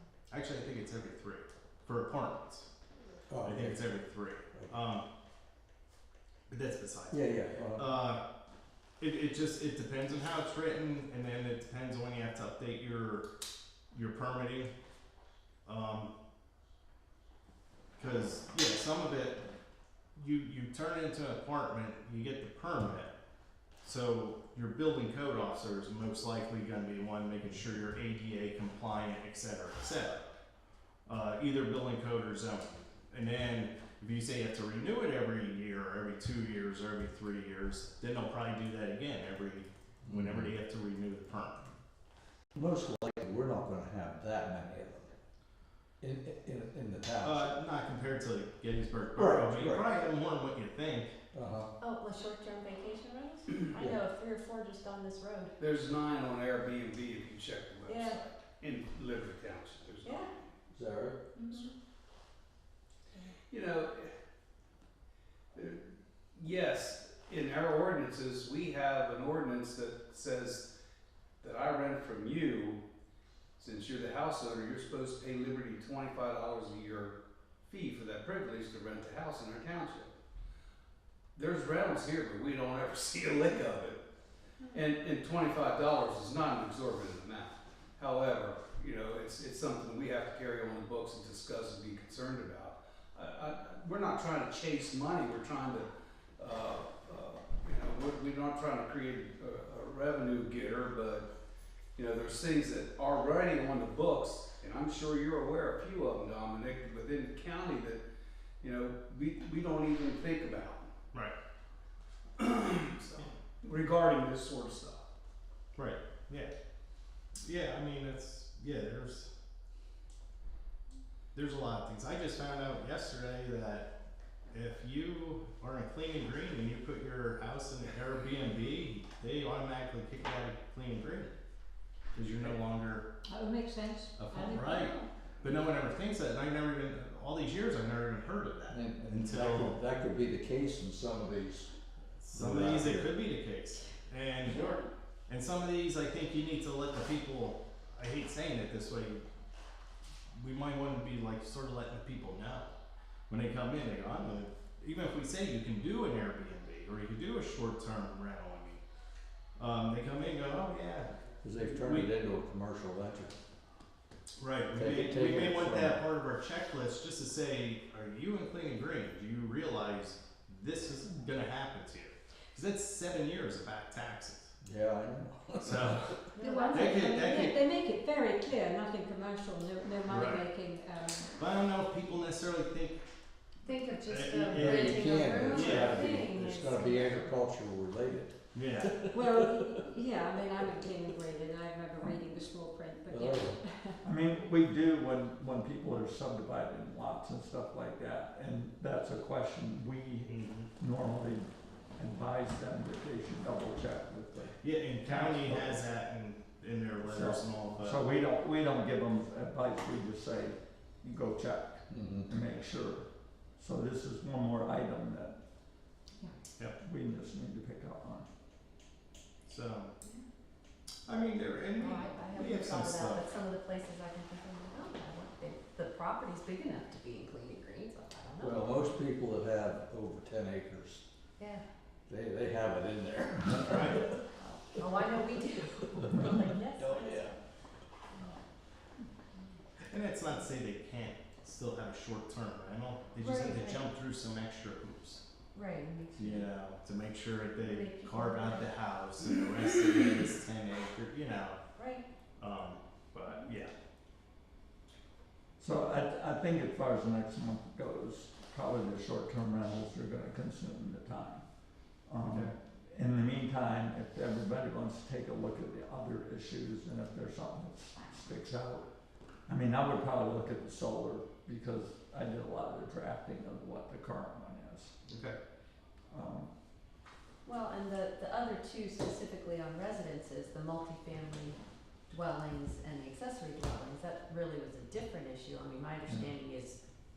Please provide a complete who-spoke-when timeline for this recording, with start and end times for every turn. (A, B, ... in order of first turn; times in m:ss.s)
0:00.3-0:02.7 A
0:03.3-0:03.8 B
0:03.4-0:05.1 A
0:06.5-0:07.2 A
0:07.1-0:07.9 B
0:07.7-0:08.2 A
0:09.0-0:13.3 A
0:13.9-0:14.7 A
0:15.7-0:16.1 A
0:18.0-0:19.5 A
0:20.2-0:23.1 A
0:23.8-0:30.2 A
0:31.1-0:41.6 A
0:40.1-0:40.4 B
0:42.6-0:45.2 B
0:46.0-0:47.5 B
0:47.2-0:51.1 A
0:49.2-0:49.8 B
0:51.3-0:51.7 B
0:51.8-0:55.6 C
0:55.6-1:00.5 D
0:57.9-0:58.2 C
1:00.0-1:00.3 C
1:00.7-1:01.3 B
1:01.4-1:01.7 C
1:03.5-1:04.1 D
1:05.5-1:10.7 D
1:11.4-1:12.8 D
1:13.6-1:20.2 D
1:21.4-1:24.0 D
1:24.7-1:41.3 D
1:42.0-1:48.0 D
1:48.6-1:50.9 D
1:52.4-1:55.1 D
1:55.8-1:56.5 A
1:57.4-1:59.3 A
2:01.4-2:03.9 A
2:04.5-2:11.4 A
2:12.2-2:13.1 A
2:13.3-2:15.1 E
2:14.2-2:19.8 A
2:18.7-2:21.7 B
2:22.2-2:29.2 A
2:22.3-2:23.2 B
2:30.3-2:32.7 A
2:33.3-2:38.8 A
2:39.6-2:42.1 A
2:41.4-2:43.3 B
2:44.4-2:54.5 A
2:44.7-2:46.0 B
2:54.6-2:56.0 B
2:55.6-2:56.1 A
2:56.4-2:57.3 C
2:56.4-3:01.3 E
2:56.7-2:57.6 A
3:00.1-3:00.5 A
3:01.4-3:03.0 A
3:03.6-3:07.0 C
3:04.1-3:06.2 A
3:04.5-3:09.8 B
3:06.7-3:07.3 E
3:08.5-3:09.1 A
3:09.1-3:14.0 E
3:13.1-3:13.6 B
3:14.0-3:25.8 F
3:20.3-3:20.7 A
3:24.6-3:28.0 A
3:27.0-3:35.4 F
3:31.9-3:32.3 B
3:36.8-3:38.3 F
3:39.5-3:39.9 A
3:41.1-3:43.3 A
3:41.8-3:48.8 C
3:48.4-3:51.0 B
3:52.1-3:54.2 B
3:53.6-3:54.1 A
3:53.7-3:57.4 C
3:54.8-3:56.1 B
3:56.8-3:57.3 B
3:59.9-4:05.2 A
4:03.2-4:03.8 C
4:05.5-4:06.5 C
4:06.2-4:11.6 A
4:07.6-4:08.7 C
4:11.8-4:12.0 C
4:12.4-4:13.7 A
4:15.6-4:21.4 F
4:22.1-4:28.9 F
4:22.2-4:22.5 A
4:29.5-4:34.9 F
4:35.1-4:35.4 A
4:36.1-4:36.5 F
4:37.4-4:41.6 C
4:42.1-4:46.8 C